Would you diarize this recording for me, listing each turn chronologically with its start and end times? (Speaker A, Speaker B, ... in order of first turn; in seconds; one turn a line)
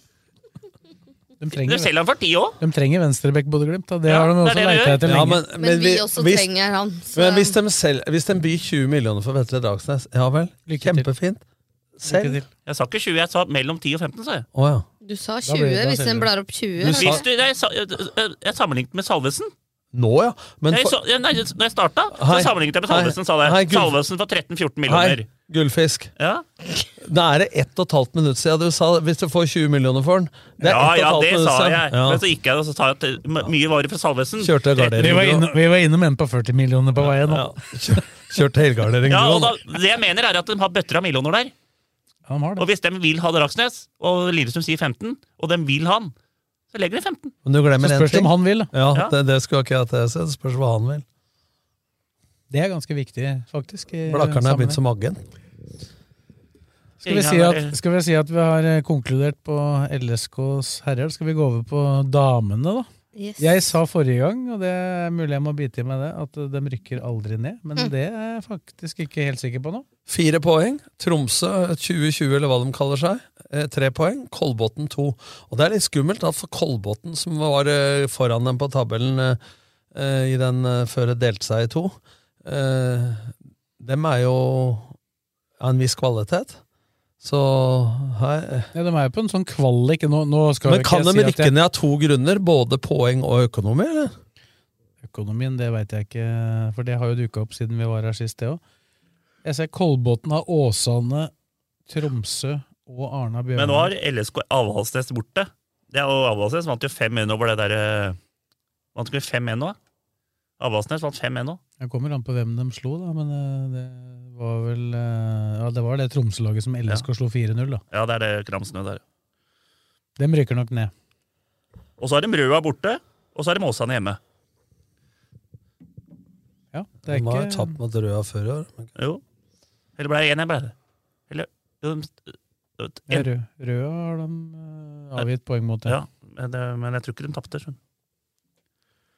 Speaker A: 1.4-1.9
Speaker B: 1.6-2.6
Speaker A: 2.6-5.4
Speaker B: 4.1-5.0
Speaker C: 5.0-6.5
Speaker D: 5.5-7.5
Speaker C: 7.1-11.4
Speaker A: 10.7-11.1
Speaker C: 12.0-12.4
Speaker A: 12.1-12.5
Speaker B: 12.7-14.5
Speaker C: 14.5-14.9
Speaker D: 15.0-17.2
Speaker A: 15.4-16.3
Speaker C: 16.8-17.2
Speaker B: 16.9-19.5
Speaker C: 19.9-21.0
Speaker B: 20.7-25.3
Speaker C: 22.1-24.0
Speaker C: 24.9-26.1
Speaker B: 26.2-26.4
Speaker C: 27.0-32.2
Speaker B: 30.6-35.2
Speaker C: 34.4-35.5
Speaker A: 35.0-38.0
Speaker C: 37.1-39.6
Speaker B: 39.1-41.5
Speaker A: 42.3-42.7
Speaker B: 42.6-46.1
Speaker B: 46.7-47.3
Speaker C: 47.5-51.0
Speaker A: 47.8-48.7
Speaker A: 52.5-54.8
Speaker C: 54.1-55.2
Speaker B: 57.0-57.8
Speaker A: 57.0-62.9
Speaker D: 63.1-63.7
Speaker A: 63.4-69.9
Speaker C: 70.1-79.4
Speaker C: 79.9-84.9
Speaker C: 85.6-86.6
Speaker C: 87.2-88.7
Speaker A: 88.7-91.5
Speaker C: 90.7-94.1
Speaker A: 95.0-98.6
Speaker A: 99.4-101.3
Speaker A: 101.9-103.9
Speaker B: 103.6-108.2
Speaker B: 109.0-109.8
Speaker B: 110.6-111.6
Speaker A: 111.8-117.8
Speaker B: 117.9-119.0
Speaker A: 120.2-120.9
Speaker B: 122.0-124.2
Speaker A: 126.7-127.8
Speaker C: 127.0-128.9
Speaker B: 129.0-129.2
Speaker B: 130.0-130.7
Speaker B: 131.3-133.3
Speaker A: 133.1-136.0
Speaker B: 135.9-137.8